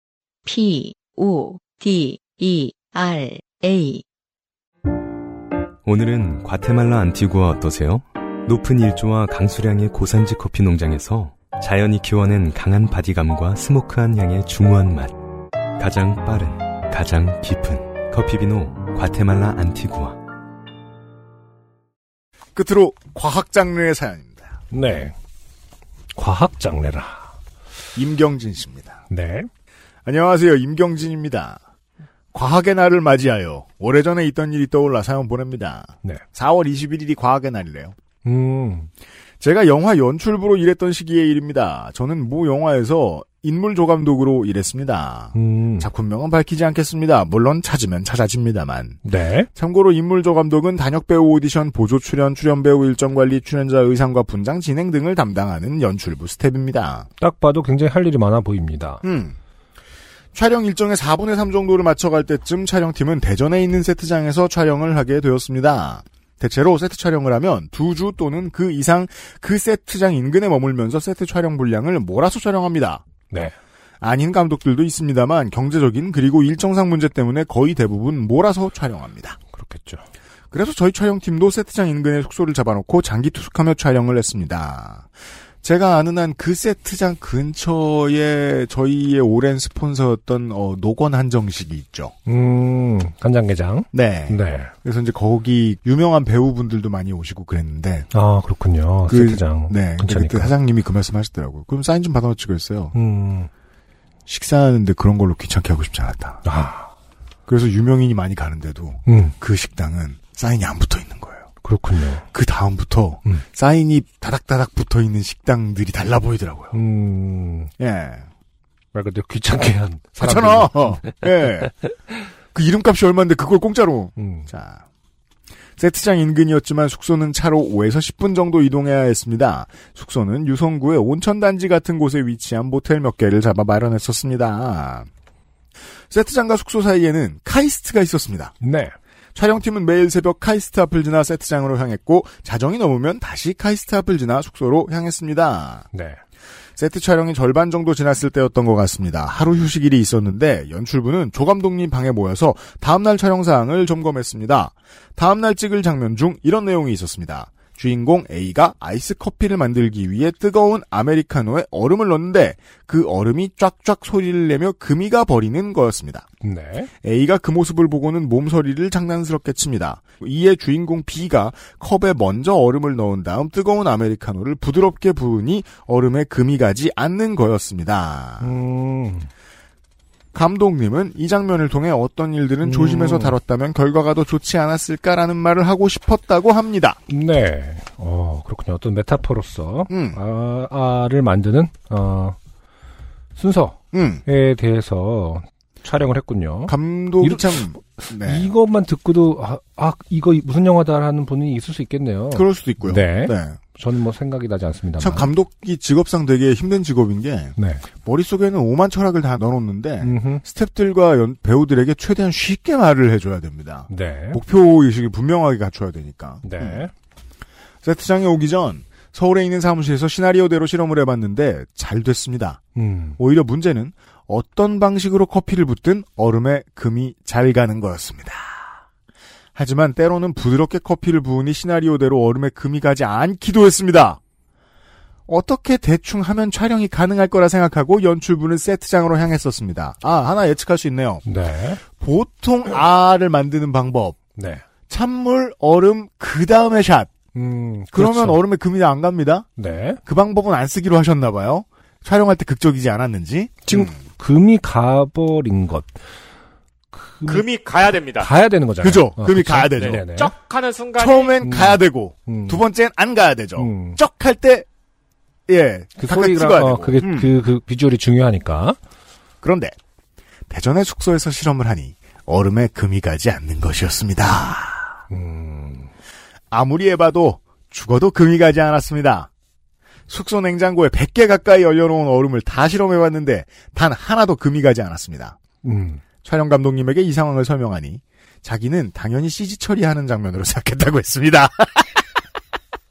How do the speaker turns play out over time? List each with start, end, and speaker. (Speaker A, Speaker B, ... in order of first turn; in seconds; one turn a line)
Speaker A: 0.5-4.0
Speaker B: 5.8-15.2
Speaker B: 15.8-20.2
Speaker C: 22.6-24.5
Speaker D: 24.7-25.1
Speaker D: 26.1-27.3
Speaker C: 27.9-29.0
Speaker D: 29.1-29.5
Speaker C: 30.1-31.6
Speaker C: 32.3-38.0
Speaker D: 38.2-38.9
Speaker C: 39.4-49.0
Speaker D: 45.3-45.9
Speaker D: 49.0-49.5
Speaker C: 49.5-57.1
Speaker D: 57.2-59.0
Speaker C: 59.0-59.4
Speaker C: 60.4-73.0
Speaker D: 73.3-73.6
Speaker C: 74.0-79.4
Speaker D: 79.5-80.0
Speaker C: 80.5-85.1
Speaker C: 85.6-92.1
Speaker D: 92.3-94.7
Speaker C: 93.9-98.1
Speaker D: 98.1-100.5
Speaker C: 99.1-103.0
Speaker D: 102.9-103.5
Speaker C: 104.3-106.5
Speaker D: 106.4-106.9
Speaker C: 107.5-111.5
Speaker D: 109.1-109.3
Speaker D: 111.6-112.2
Speaker C: 112.3-116.8
Speaker D: 116.7-117.7
Speaker C: 117.8-118.2
Speaker D: 118.9-121.7
Speaker C: 120.2-121.7
Speaker C: 122.5-124.8
Speaker D: 124.2-124.5
Speaker C: 125.8-135.1
Speaker C: 136.1-138.5
Speaker D: 138.6-138.9
Speaker C: 139.3-145.9
Speaker D: 145.9-146.2
Speaker C: 146.8-166.3
Speaker D: 166.4-166.9
Speaker C: 167.0-178.6
Speaker D: 178.4-179.3
Speaker C: 180.3-187.0
Speaker D: 182.6-183.4
Speaker D: 187.1-192.4
Speaker C: 189.9-190.2
Speaker D: 193.4-205.3
Speaker C: 193.9-194.2
Speaker C: 196.7-198.5
Speaker C: 202.3-203.6
Speaker C: 205.0-216.9
Speaker D: 207.6-207.8
Speaker D: 210.0-210.4
Speaker D: 213.9-214.4
Speaker D: 216.4-216.9
Speaker C: 217.8-222.6
Speaker D: 222.8-223.2
Speaker C: 223.2-228.7
Speaker C: 229.6-234.2
Speaker C: 235.3-241.2
Speaker D: 241.2-241.8
Speaker C: 242.0-244.2
Speaker D: 244.3-244.6
Speaker C: 244.9-247.1
Speaker D: 247.3-248.4
Speaker C: 247.9-249.5
Speaker D: 249.6-250.0
Speaker C: 250.1-253.9
Speaker D: 253.7-255.9
Speaker D: 256.9-260.3
Speaker E: 257.3-258.3
Speaker C: 258.8-260.0
Speaker E: 259.8-261.4
Speaker C: 261.0-264.7
Speaker D: 261.4-262.6
Speaker D: 263.6-264.0
Speaker C: 265.5-267.3
Speaker D: 266.0-268.8
Speaker C: 269.4-269.8
Speaker C: 270.5-275.0
Speaker D: 275.1-275.9
Speaker C: 276.5-279.3
Speaker C: 280.1-285.4
Speaker D: 285.6-286.0
Speaker C: 286.2-292.0